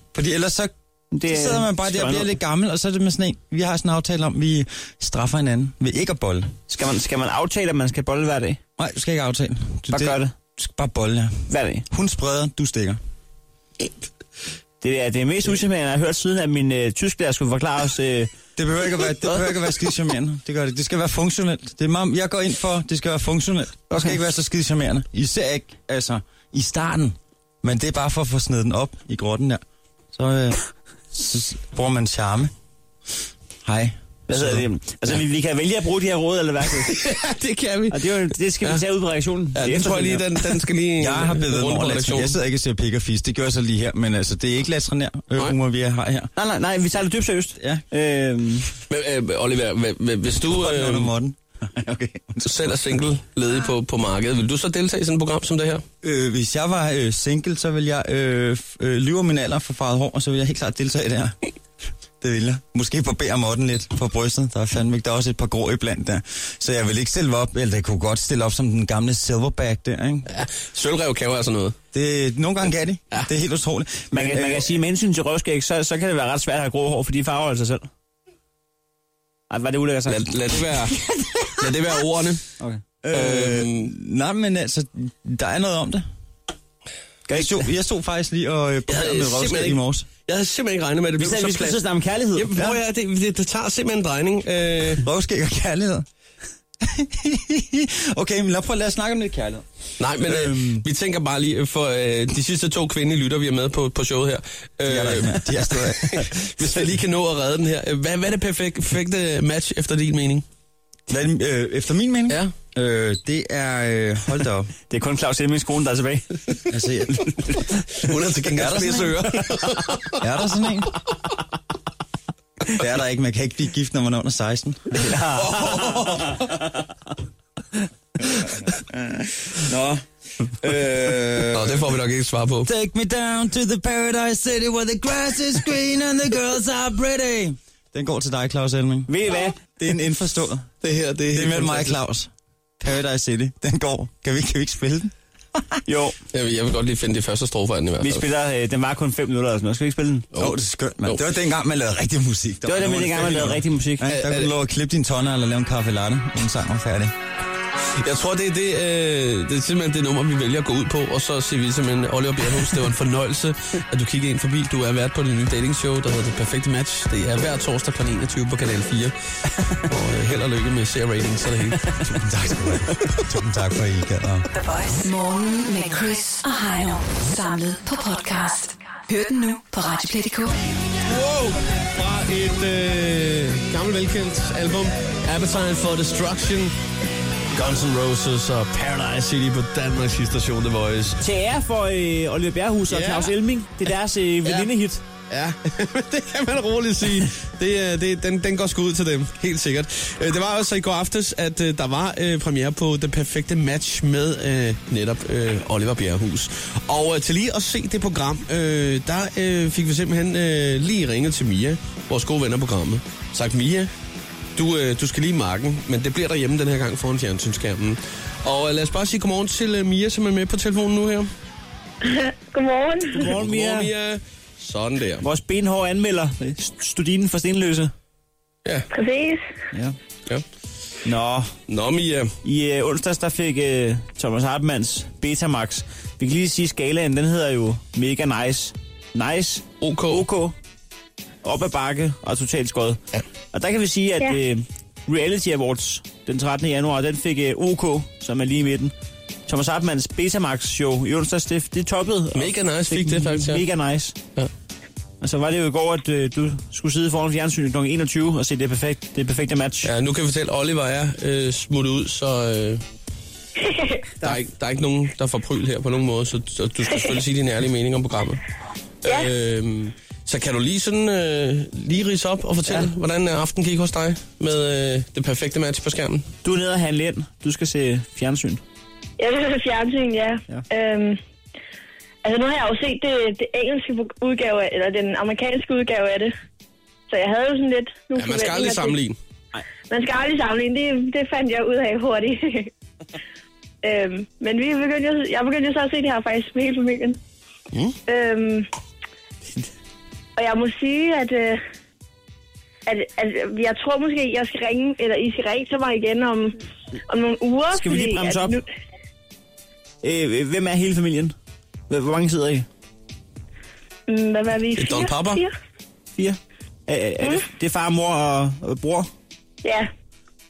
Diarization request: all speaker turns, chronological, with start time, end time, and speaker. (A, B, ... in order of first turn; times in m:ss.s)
0:00.1-0:00.7 A
0:01.1-0:02.3 B
0:01.3-0:06.5 A
0:06.7-0:08.6 B
0:08.8-0:13.0 A
0:09.9-0:10.3 B
0:11.5-0:11.9 B
0:14.8-0:18.3 B
0:18.6-0:29.6 A
0:30.1-0:30.6 A
0:31.1-0:32.5 A
0:33.6-0:34.6 A
0:34.3-0:37.0 B
0:36.9-0:38.8 C
0:37.9-0:40.5 B
0:39.6-0:42.4 C
0:41.0-0:46.3 A
0:46.4-0:48.7 B
0:48.9-0:51.1 C
0:50.4-0:52.8 A
0:52.4-0:55.8 C
0:56.0-1:01.4 A
1:02.2-1:10.3 A
1:10.3-1:11.8 C
1:11.9-1:14.7 A
1:14.1-1:17.9 B
1:19.5-1:20.3 B
1:20.1-1:22.4 C
1:23.0-1:26.1 A
1:23.1-1:23.9 C
1:27.3-1:27.6 B
1:27.3-1:30.1 A
1:28.9-1:31.8 C
1:31.2-1:32.7 B
1:32.3-1:35.0 C
1:35.0-1:36.1 A
1:36.8-1:39.6 A
1:40.0-1:50.4 C
1:40.3-1:40.7 A
1:44.8-1:46.8 A
1:51.1-1:54.7 A
1:54.9-1:56.4 B
1:56.7-1:57.6 A
1:58.0-2:00.2 C
1:58.5-1:59.4 A
2:00.1-2:00.9 A
2:02.7-2:06.4 A
2:04.9-2:06.0 B
2:05.5-2:06.4 C
2:08.2-2:11.9 A
2:11.5-2:12.7 C
2:12.6-2:20.7 A
2:19.1-2:19.6 B
2:20.8-2:22.0 C
2:21.3-2:25.6 A
2:25.9-2:26.2 B
2:26.3-2:28.3 C
2:28.0-2:30.3 B
2:30.3-2:31.2 C
2:30.4-2:37.1 A
2:32.6-2:34.1 B
2:33.1-2:34.5 C
2:37.9-2:49.1 C
2:49.8-2:52.0 C
2:52.1-2:54.5 A
2:54.5-3:00.6 D
3:01.1-3:06.7 C
3:07.5-3:11.2 C
3:11.2-3:15.0 B
3:12.9-3:13.4 C
3:15.3-3:33.9 C
3:34.6-3:41.3 C
3:42.0-3:43.3 E
3:43.1-3:43.9 B
3:43.2-3:45.2 C
3:45.2-3:47.9 B
3:48.9-3:49.4 E
3:51.0-3:51.5 B
3:51.7-3:52.4 C
3:52.4-4:00.6 B
3:59.8-4:00.2 C
4:01.4-4:03.0 B
4:03.5-4:08.9 B
4:09.5-4:14.2 B
4:12.4-4:13.6 C
4:15.2-4:19.9 B
4:19.8-4:22.8 C
4:23.6-4:24.0 E
4:24.2-4:28.4 C
4:29.0-4:36.3 C
4:36.4-4:38.6 B
4:39.2-4:41.2 E
4:42.2-4:46.3 E
4:47.1-4:49.0 E
4:48.2-4:49.2 C
4:49.9-4:52.7 E
4:53.8-4:57.2 E
4:58.1-4:58.7 E
5:00.4-5:01.6 E
5:02.9-5:08.6 E
5:07.7-5:08.6 B
5:10.0-5:11.4 B
5:11.9-5:12.7 B
5:14.1-5:15.5 E
5:14.8-5:15.4 C
5:16.2-5:19.1 B
5:19.6-5:19.9 E